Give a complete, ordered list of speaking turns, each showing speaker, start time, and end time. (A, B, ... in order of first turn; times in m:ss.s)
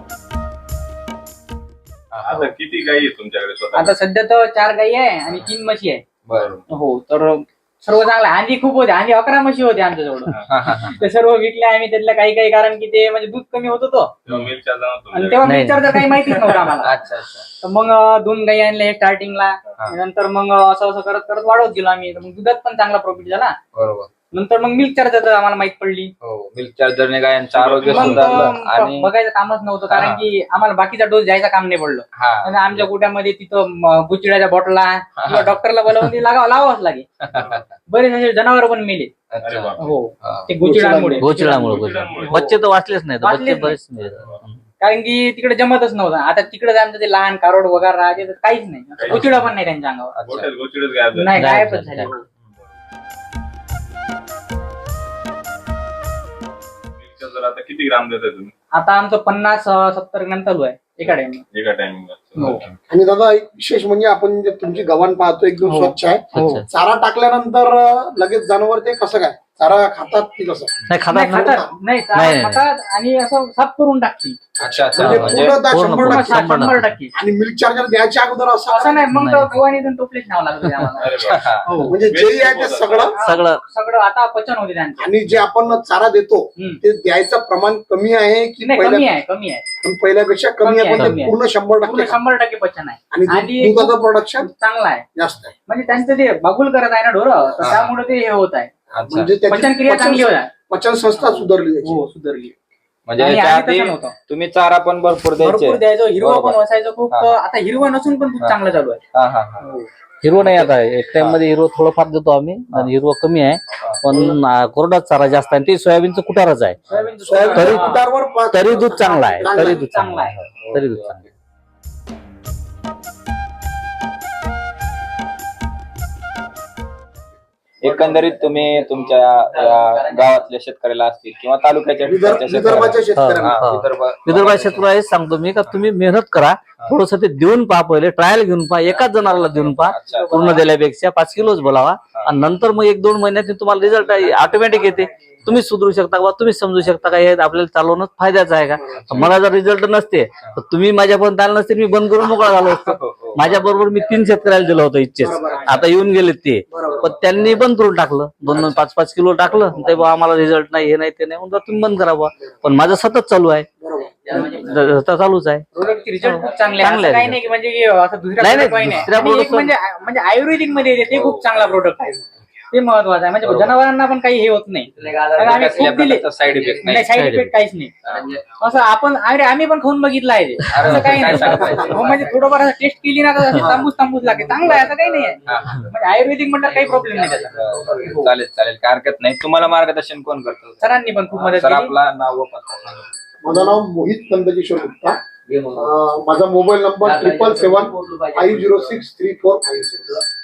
0:02.2-0:04.0 A
0:03.7-0:06.0 B
0:06.2-0:06.5 C
0:06.4-0:06.6 A
0:06.7-0:14.1 B
0:10.4-0:11.0 C
0:14.2-0:15.5 A
0:15.1-0:17.0 B
0:15.4-0:16.3 D
0:16.8-0:17.5 C
0:17.6-0:23.6 B
0:23.7-0:24.1 C
0:24.3-0:26.1 B
0:26.2-0:29.1 C
0:27.5-0:28.5 A
0:27.8-0:37.0 B
0:29.9-0:30.2 C
0:32.2-0:32.9 C
0:35.2-0:35.6 C
0:37.2-0:37.7 C
0:37.4-0:37.6 A
0:37.9-0:39.2 B
0:39.3-0:40.5 C
0:39.4-0:40.0 A
0:39.8-0:41.4 B
0:40.6-0:41.8 E
0:41.2-0:44.6 D
0:41.4-0:42.5 A
0:42.2-0:42.5 B
0:43.2-0:43.8 B
0:44.1-0:44.4 A
0:44.8-0:50.1 B
0:49.0-0:49.4 A
0:50.2-0:50.5 C
0:50.2-0:51.4 A
0:51.1-0:52.2 B
0:51.3-0:52.1 D
0:57.0-0:58.5 A
0:58.7-1:01.4 B
1:01.0-1:02.8 A
1:02.4-1:02.6 B
1:02.9-1:11.7 E
1:05.6-1:06.6 B
1:06.3-1:06.6 D
1:10.9-1:11.5 D
1:11.1-1:14.4 B
1:12.1-1:12.6 D
1:14.6-1:19.0 E
1:14.6-1:15.6 C
1:15.0-1:16.9 D
1:15.9-1:17.1 B
1:18.7-1:22.0 B
1:19.1-1:19.5 D
1:21.0-1:23.1 A
1:21.2-1:21.6 C
1:21.8-1:23.2 E
1:23.1-1:25.1 B
1:23.2-1:23.6 D
1:25.0-1:29.1 E
1:28.6-1:29.6 B
1:29.8-1:32.2 E
1:30.6-1:35.0 B
1:30.9-1:31.2 D
1:33.1-1:34.5 E
1:35.1-1:35.5 E
1:35.6-1:38.7 B
1:37.5-1:37.8 E
1:37.6-1:37.9 C
1:38.9-1:39.4 C
1:39.0-1:42.0 E
1:39.4-1:40.5 B
1:41.1-1:42.5 B
1:43.1-1:46.6 C
1:43.2-1:44.1 B
1:45.4-1:49.0 B
1:47.1-1:47.4 C
1:49.1-1:49.6 C
1:49.6-1:49.9 B
1:50.2-1:56.8 D
1:50.3-1:51.4 C
1:56.9-1:58.0 B
1:57.2-1:59.8 E
1:57.5-1:58.0 D
1:58.5-2:01.2 D
1:59.2-2:00.4 B
2:00.6-2:01.2 C
2:07.8-2:14.9 C
2:12.0-2:13.6 E
2:13.1-2:43.7 D
2:19.8-2:20.4 C
2:20.2-2:20.6 B
2:28.8-2:29.3 E
2:29.0-2:29.3 C
2:32.8-2:33.6 C
2:35.2-2:35.8 E
2:36.7-2:37.1 E
2:37.0-2:37.4 C
2:38.5-2:38.8 C
2:43.8-2:44.6 E
2:44.3-2:45.6 D
2:45.7-2:56.3 B
2:46.2-2:47.4 D
2:46.4-2:46.6 C
2:48.4-2:49.7 D
2:51.1-2:51.4 C
2:53.4-2:53.8 C
2:55.1-2:57.1 C
2:56.8-2:57.9 B
2:57.0-2:57.5 D
2:58.0-2:58.4 C
2:58.6-3:07.7 B
3:00.7-3:02.2 C
3:00.9-3:01.5 D
3:05.4-3:05.8 C
3:07.1-3:13.0 C
3:10.8-3:11.9 B
3:13.4-3:20.2 E